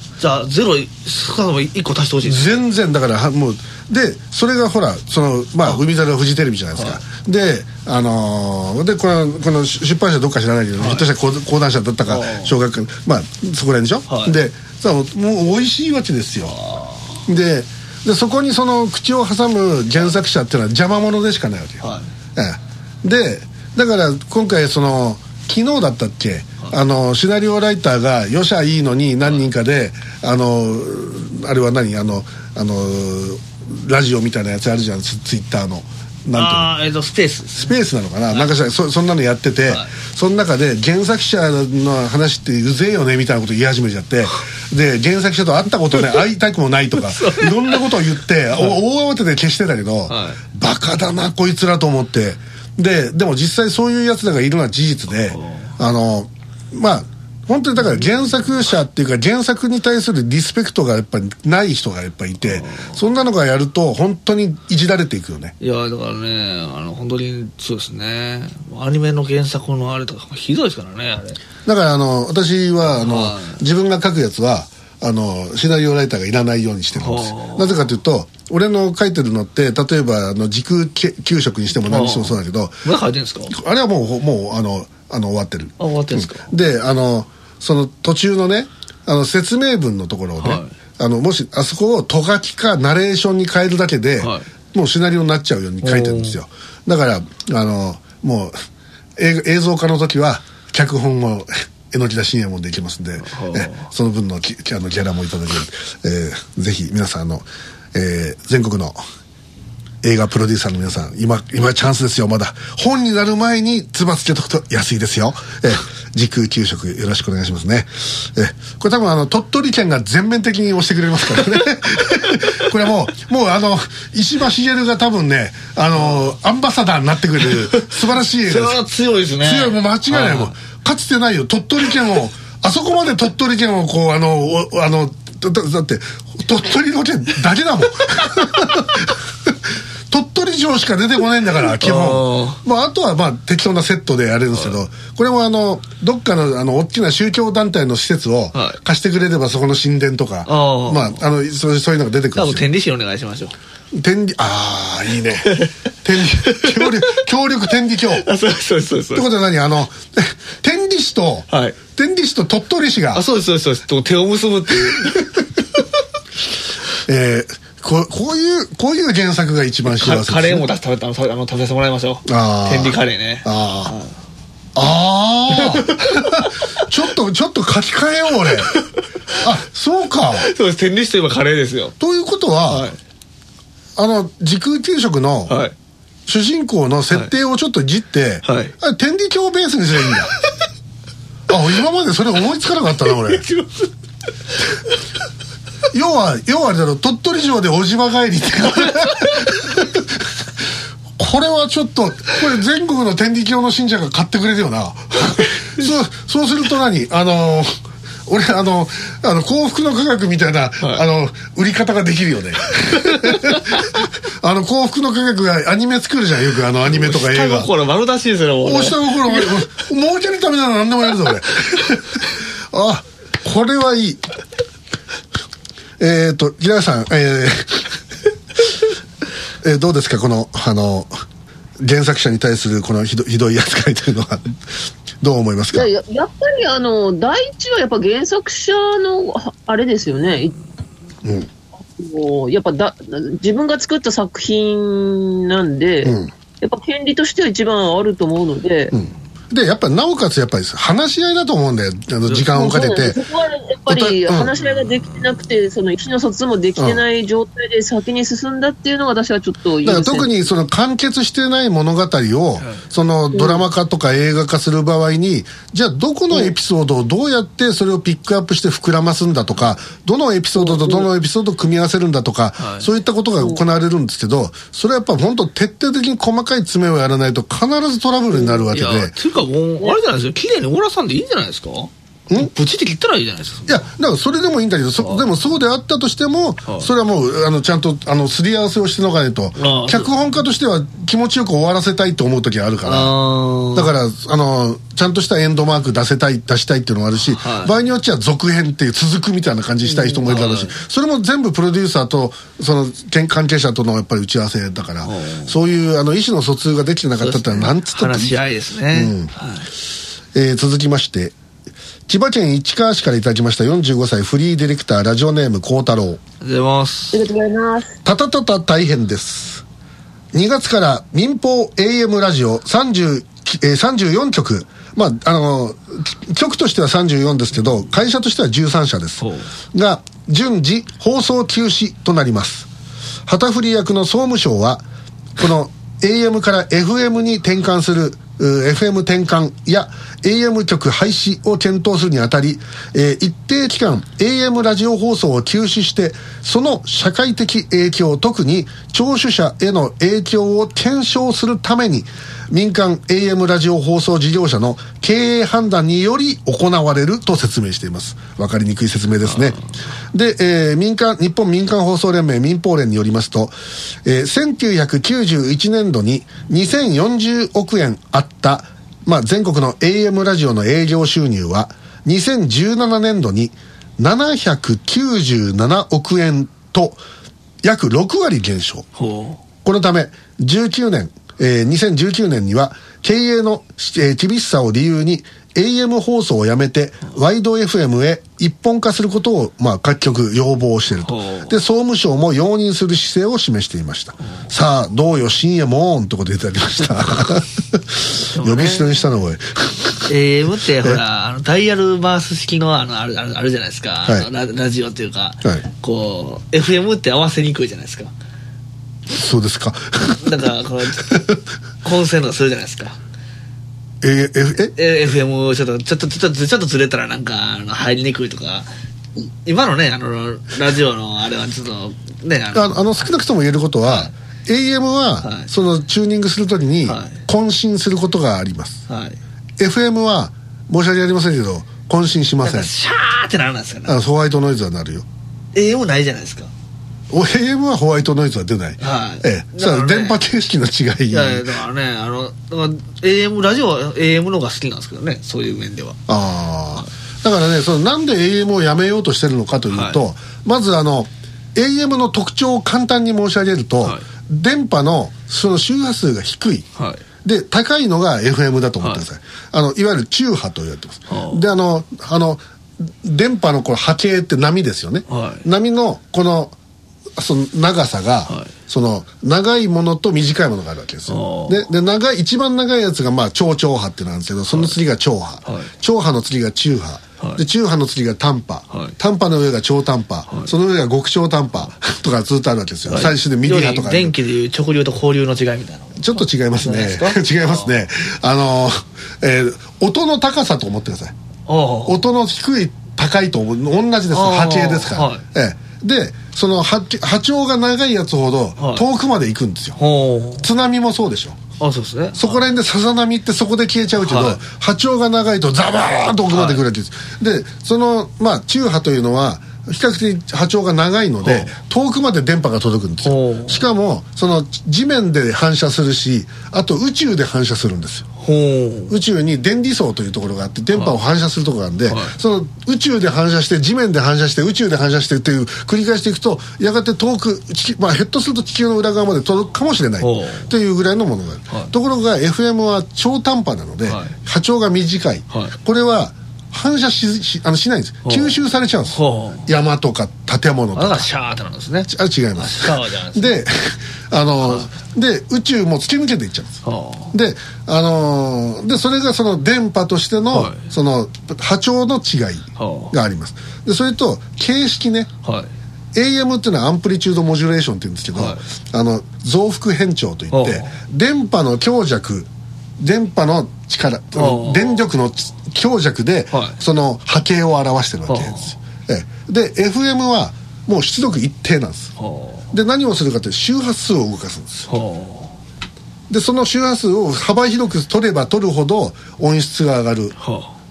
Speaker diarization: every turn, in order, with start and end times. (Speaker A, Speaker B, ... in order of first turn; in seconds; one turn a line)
Speaker A: 0.2-2.7
Speaker B: 2.2-16.6
Speaker A: 6.8-7.0
Speaker A: 10.8-11.1
Speaker A: 12.1-12.5
Speaker A: 14.1-14.4
Speaker A: 16.4-17.2
Speaker B: 17.3-36.7
Speaker A: 21.8-22.1
Speaker A: 36.3-37.8
Speaker B: 37.6-65.5
Speaker A: 47.0-47.8
Speaker A: 50.1-50.4
Speaker A: 55.3-55.7
Speaker A: 57.8-58.1
Speaker A: 62.5-63.0
Speaker A: 65.6-71.4
Speaker B: 71.6-82.9
Speaker A: 72.9-73.6
Speaker A: 77.0-77.9
Speaker A: 81.9-83.5
Speaker B: 83.5-98.5
Speaker A: 85.8-86.5
Speaker A: 90.4-90.7
Speaker A: 94.2-94.5
Speaker A: 95.8-96.4
Speaker B: 99.2-109.0
Speaker A: 103.2-103.9
Speaker B: 110.0-128.8
Speaker A: 127.8-130.6
Speaker B: 129.4-139.6
Speaker B: 140.1-152.7
Speaker A: 141.8-142.6
Speaker A: 148.5-148.8
Speaker A: 150.4-151.2
Speaker A: 152.3-153.6
Speaker B: 153.9-158.3
Speaker A: 155.4-155.7
Speaker A: 156.4-157.2
Speaker A: 158.2-159.3
Speaker B: 159.1-163.2
Speaker A: 161.5-161.8
Speaker A: 163.1-165.3
Speaker B: 167.1-170.7
Speaker A: 169.9-174.1
Speaker B: 172.3-173.9
Speaker B: 174.8-178.8
Speaker A: 175.5-176.5
Speaker B: 179.4-180.5
Speaker A: 180.4-181.9
Speaker B: 182.0-182.9
Speaker A: 182.7-183.0
Speaker B: 183.9-185.6
Speaker A: 185.5-185.7
Speaker B: 186.3-190.3
Speaker A: 188.4-188.8
Speaker B: 191.5-193.5
Speaker A: 193.3-193.9
Speaker B: 195.9-200.4
Speaker B: 201.2-217.7
Speaker A: 212.9-213.7
Speaker A: 216.9-219.6
Speaker B: 218.6-224.2
Speaker B: 226.0-228.0
Speaker B: 229.6-231.1
Speaker B: 231.8-234.6
Speaker B: 235.2-235.9
Speaker C: 235.7-240.6
Speaker C: 241.9-248.9
Speaker B: 246.0-246.3
Speaker B: 248.9-253.2
Speaker C: 252.5-260.4
Speaker B: 253.9-254.5
Speaker A: 254.6-255.2
Speaker B: 259.8-279.1
Speaker A: 262.6-262.9
Speaker C: 263.3-263.6
Speaker C: 270.6-271.1
Speaker A: 272.6-272.9
Speaker A: 278.7-283.8
Speaker B: 283.7-293.1
Speaker A: 285.0-285.3
Speaker A: 289.6-290.1
Speaker A: 292.8-293.9
Speaker B: 293.7-308.4
Speaker A: 297.2-297.8
Speaker A: 299.8-300.8
Speaker A: 305.0-305.6
Speaker A: 307.2-309.7
Speaker B: 308.9-309.3
Speaker B: 310.3-311.4
Speaker B: 312.1-316.2
Speaker A: 316.4-317.2
Speaker C: 317.1-317.9
Speaker B: 318.1-319.6
Speaker B: 320.3-332.7
Speaker A: 329.2-329.5
Speaker B: 333.3-334.9
Speaker B: 335.4-359.6
Speaker A: 359.3-359.6
Speaker B: 360.1-377.0
Speaker B: 377.6-378.9
Speaker A: 378.9-379.4
Speaker B: 379.6-400.1
Speaker A: 391.0-391.6
Speaker A: 398.3-398.9
Speaker A: 400.1-408.1
Speaker B: 409.1-410.3
Speaker A: 410.2-411.2
Speaker A: 411.8-413.0
Speaker B: 414.0-414.8
Speaker A: 414.8-422.8
Speaker B: 422.6-428.8
Speaker A: 423.9-424.1
Speaker A: 425.2-425.5
Speaker A: 426.9-427.2
Speaker A: 428.9-429.2
Speaker B: 429.6-432.7
Speaker A: 432.4-434.0
Speaker B: 433.9-435.1
Speaker A: 435.5-436.5
Speaker B: 437.1-441.4
Speaker A: 438.8-440.2
Speaker A: 441.1-446.0
Speaker B: 446.1-456.7
Speaker A: 449.7-450.0
Speaker A: 456.8-457.0
Speaker B: 457.2-466.6
Speaker A: 461.1-461.4
Speaker A: 465.1-465.4
Speaker B: 467.2-484.1
Speaker A: 468.3-468.5
Speaker A: 471.1-471.6
Speaker A: 474.5-474.8
Speaker A: 475.4-475.7
Speaker A: 482.9-487.7
Speaker B: 485.9-491.1
Speaker A: 491.5-492.0
Speaker B: 491.9-499.8
Speaker A: 494.1-495.2
Speaker A: 498.6-498.9
Speaker A: 499.8-500.5
Speaker B: 500.4-501.4
Speaker A: 501.6-502.4
Speaker B: 502.1-518.1
Speaker A: 504.0-504.4
Speaker A: 506.3-506.6
Speaker A: 511.2-511.5
Speaker A: 513.0-513.6
Speaker A: 518.2-518.9
Speaker B: 518.9-541.1
Speaker A: 520.7-521.0
Speaker A: 521.9-522.1
Speaker A: 530.0-530.5
Speaker A: 533.9-534.1
Speaker A: 538.0-538.4
Speaker A: 538.9-539.5
Speaker A: 540.8-543.4
Speaker B: 541.9-555.1
Speaker A: 544.4-544.7
Speaker A: 546.6-547.1
Speaker A: 550.3-550.7
Speaker A: 552.6-552.9
Speaker A: 555.2-555.5
Speaker B: 555.9-562.3
Speaker A: 558.1-558.4
Speaker A: 560.3-560.8
Speaker B: 562.8-571.9
Speaker A: 564.1-564.9
Speaker A: 566.3-566.6
Speaker A: 568.1-568.5
Speaker A: 572.0-572.5
Speaker B: 572.5-574.7
Speaker A: 574.7-575.4
Speaker B: 576.1-580.1
Speaker A: 580.2-580.5